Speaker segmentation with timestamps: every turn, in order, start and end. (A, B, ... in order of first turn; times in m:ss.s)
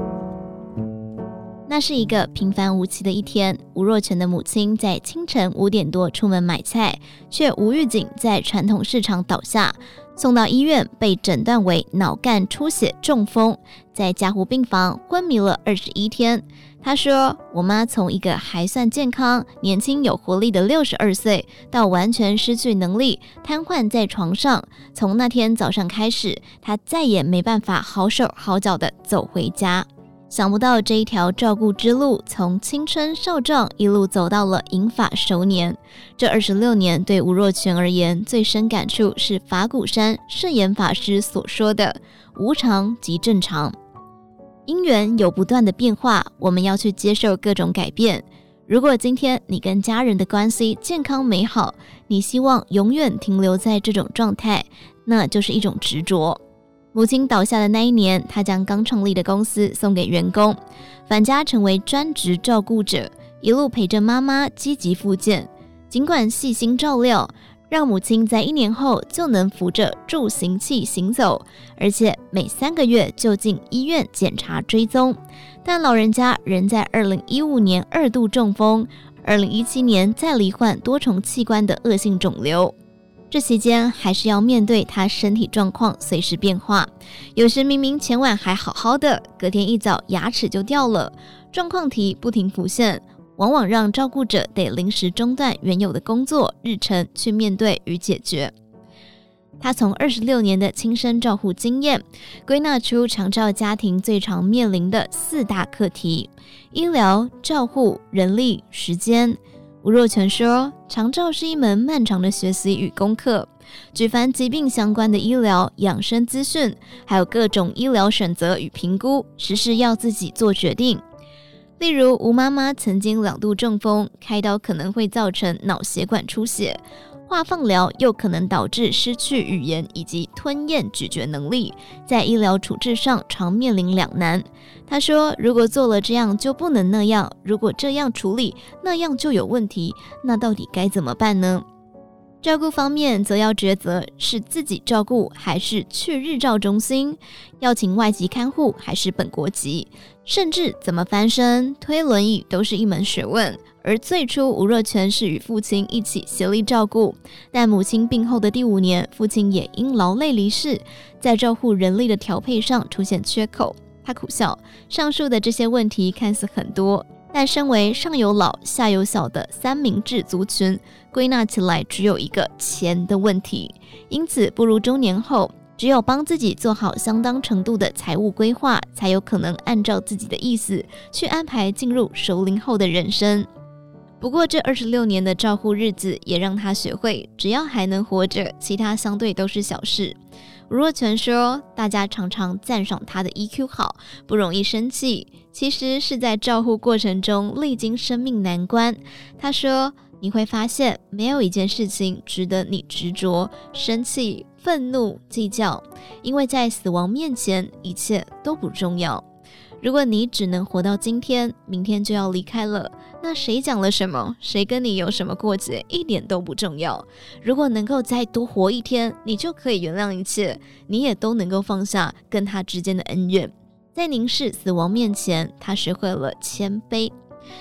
0:01.7-0:43.8 A
0:44.7-0:56.4 A
0:56.9-1:22.8 A
1:23.3-1:38.5 A
1:39.6-2:01.0 A
2:01.8-2:21.6 A
2:22.4-3:03.5 A
3:04.2-3:10.2 A
3:10.7-3:29.2 A
3:29.8-3:47.1 A